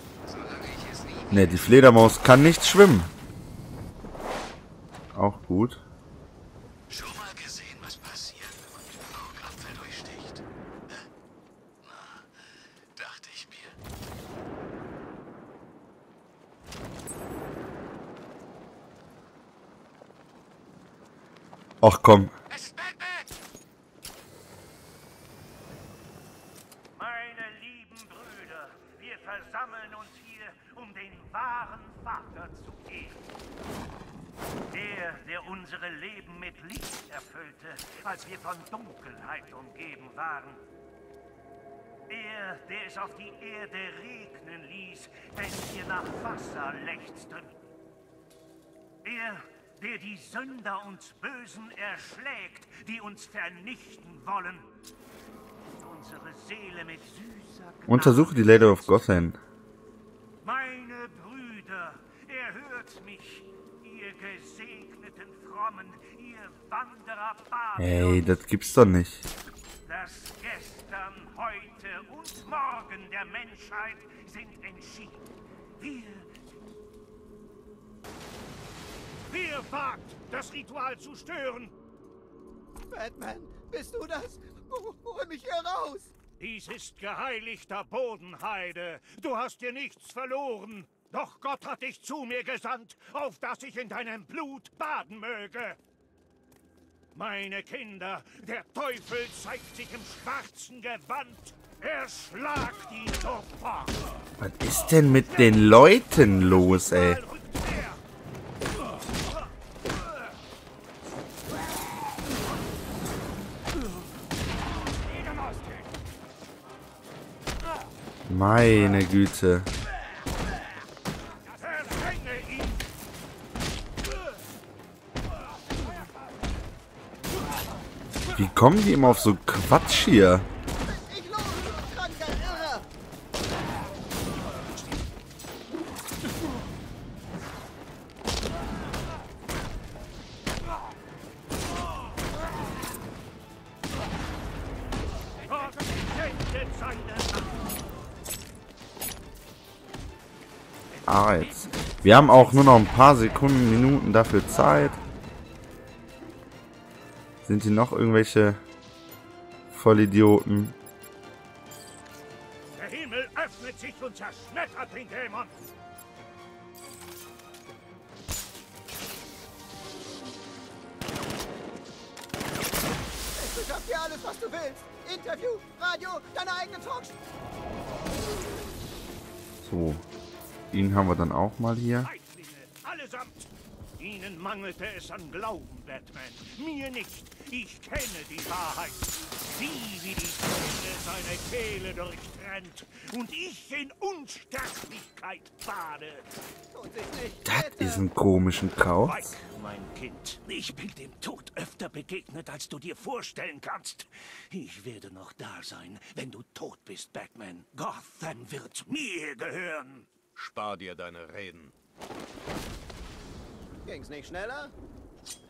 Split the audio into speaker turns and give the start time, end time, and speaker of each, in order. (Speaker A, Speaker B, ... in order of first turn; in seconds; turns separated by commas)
Speaker A: 0.4-1.1, Speaker B: 1.3-3.1, Speaker B: 5.1-5.8, Speaker A: 6.9-10.4, Speaker A: 13.0-13.7, Speaker B: 21.8-22.3, Speaker C: 26.9-33.2, Speaker C: 34.7-40.6, Speaker C: 42.1-47.5, Speaker C: 49.0-54.6, Speaker C: 55.7-59.0, Speaker B: 57.9-59.4, Speaker C: 60.4-68.3, Speaker B: 67.8-69.3, Speaker C: 69.8-75.2, Speaker C: 75.8-76.3, Speaker C: 79.3-81.7, Speaker D: 82.9-86.1, Speaker C: 86.4-95.8, Speaker C: 97.1-104.0, Speaker B: 104.4-107.2, Speaker C: 105.1-108.0, Speaker B: 118.3-119.7, Speaker C: 121.5-122.9, Speaker B: 128.3-130.4, Speaker D: 130.8-132.9, Speaker C: 145.4-147.7, Speaker C: 150.9-153.5, Speaker B: 151.1-155.0, Speaker B: 157.4-158.6, Speaker B: 159.7-160.8, Speaker C: 162.7-165.5, Speaker D: 173.3-177.2, Speaker B: 179.6-180.1, Speaker B: 180.7-182.1, Speaker C: 182.0-196.3, Speaker D: 196.7-198.0, Speaker B: 197.4-199.3, Speaker C: 199.0-210.1, Speaker A: 210.3-211.7, Speaker D: 213.8-214.7